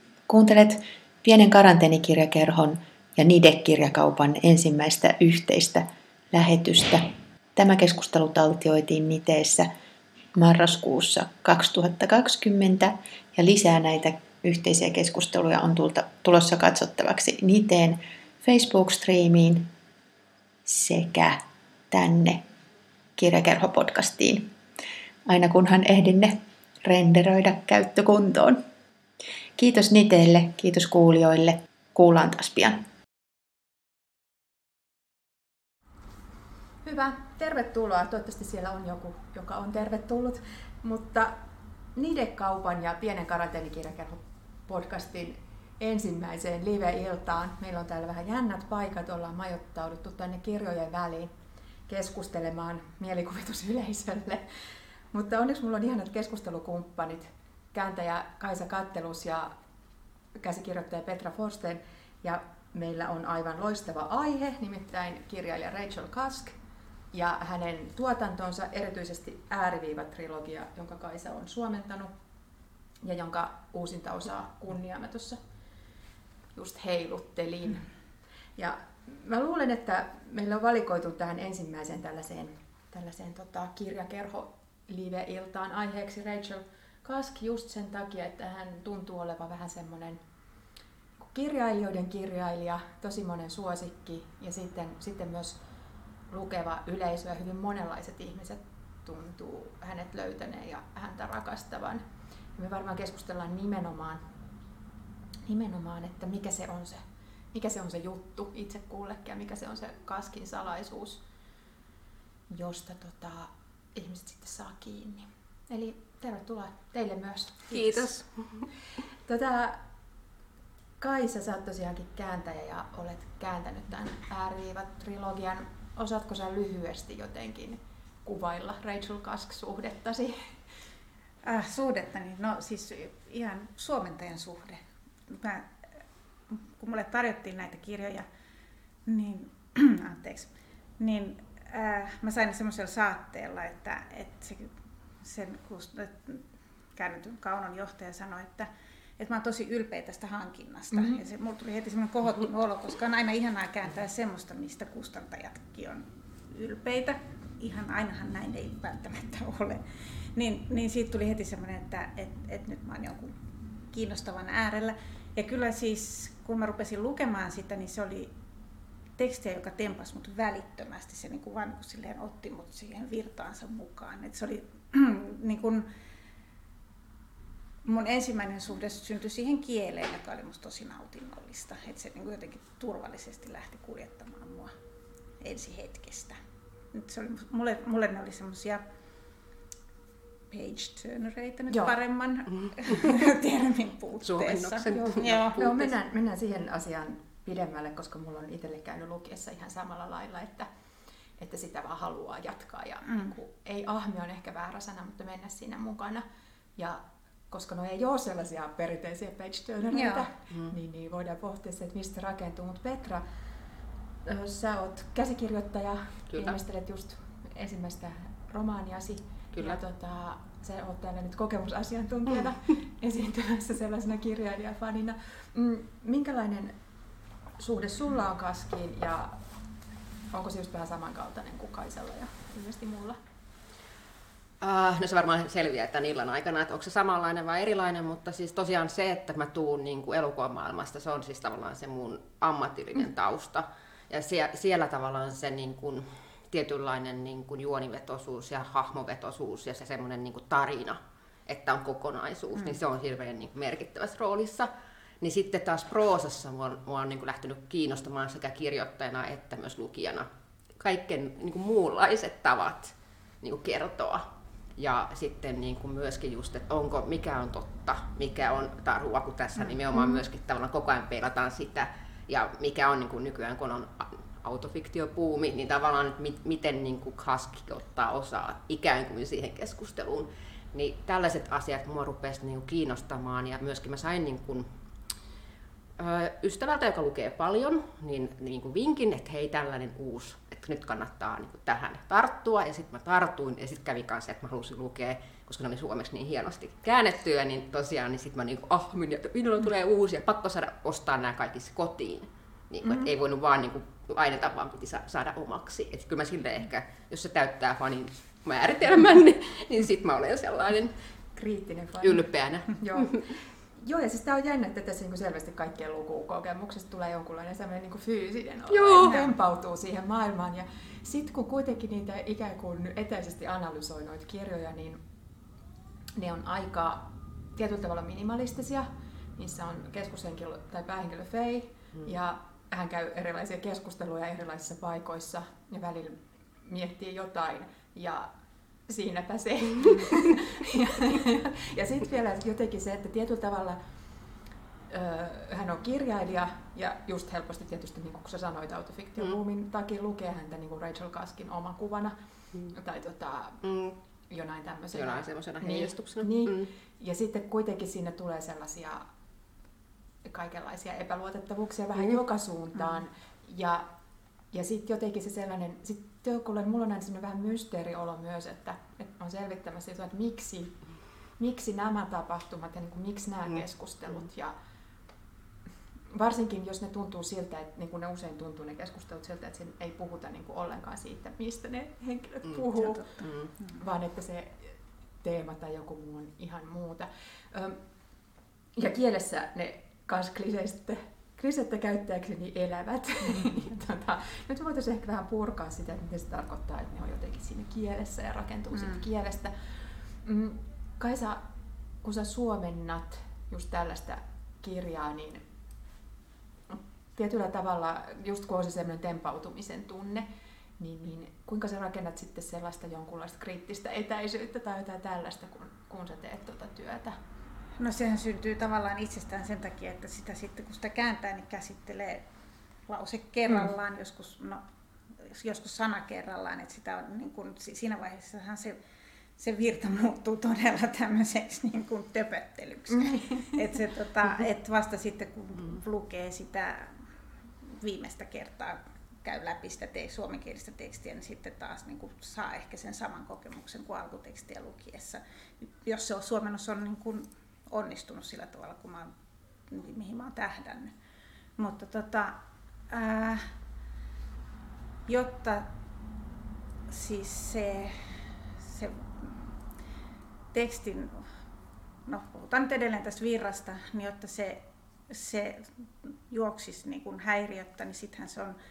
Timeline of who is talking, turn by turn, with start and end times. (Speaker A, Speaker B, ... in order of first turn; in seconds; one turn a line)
Speaker A: 0.3-7.0
Speaker A: 7.6-9.7
Speaker A: 10.3-19.7
Speaker A: 20.7-22.4
Speaker A: 23.2-24.5
Speaker A: 25.3-28.6
Speaker A: 29.6-32.8
Speaker B: 36.8-41.4
Speaker B: 42.0-51.4
Speaker B: 51.9-54.5
Speaker B: 55.1-59.5
Speaker B: 60.4-66.6
Speaker B: 67.1-72.1
Speaker B: 73.0-75.4
Speaker B: 76.5-77.9
Speaker B: 78.6-90.2
Speaker B: 91.2-95.6
Speaker B: 96.3-102.0
Speaker B: 102.6-104.2
Speaker B: 105.5-111.2
Speaker B: 112.5-118.1
Speaker C: 117.7-118.7
Speaker B: 119.3-119.8
Speaker B: 121.0-130.6
Speaker D: 131.4-135.7
Speaker D: 136.5-138.2
Speaker D: 139.1-146.4
Speaker D: 146.9-148.7
Speaker D: 149.2-163.4
Speaker B: 150.9-151.2
Speaker D: 163.9-168.3
Speaker D: 169.2-175.9
Speaker D: 177.8-184.7
Speaker D: 185.4-186.4
Speaker D: 186.9-188.8
Speaker D: 190.5-195.7
Speaker C: 192.6-193.2
Speaker C: 194.2-195.9
Speaker B: 194.9-200.7
Speaker B: 201.4-206.2
Speaker D: 203.1-203.3
Speaker B: 206.8-213.2
Speaker D: 209.9-210.3
Speaker B: 214.2-226.8
Speaker C: 216.3-216.6
Speaker C: 219.5-219.8
Speaker B: 227.6-229.4
Speaker B: 230.3-233.2
Speaker C: 234.6-254.7
Speaker C: 255.2-260.3
Speaker C: 260.8-284.7
Speaker C: 286.0-310.9
Speaker B: 302.8-303.1
Speaker B: 311.4-312.2
Speaker C: 312.0-313.3
Speaker B: 312.8-325.0
Speaker C: 318.7-319.1
Speaker D: 319.0-319.4
Speaker B: 326.2-338.3
Speaker B: 338.9-343.8
Speaker B: 344.9-352.2
Speaker B: 352.7-353.6
Speaker C: 353.6-354.0
Speaker B: 354.3-359.1
Speaker C: 354.9-356.7
Speaker B: 360.2-363.9
Speaker B: 364.5-370.8
Speaker B: 371.4-374.6
Speaker B: 376.1-383.1
Speaker D: 382.8-383.1
Speaker C: 383.2-383.5
Speaker B: 383.8-387.8
Speaker B: 388.8-401.4
Speaker D: 398.7-399.1
Speaker B: 402.0-405.4
Speaker B: 406.7-417.2
Speaker D: 417.8-422.3
Speaker D: 422.9-424.6
Speaker D: 425.2-428.8
Speaker D: 429.4-437.0
Speaker B: 432.9-433.6
Speaker D: 437.6-449.1
Speaker D: 449.7-450.9
Speaker D: 451.6-453.5
Speaker D: 455.1-455.7
Speaker D: 456.9-459.5
Speaker D: 460.5-461.2
Speaker D: 462.1-468.6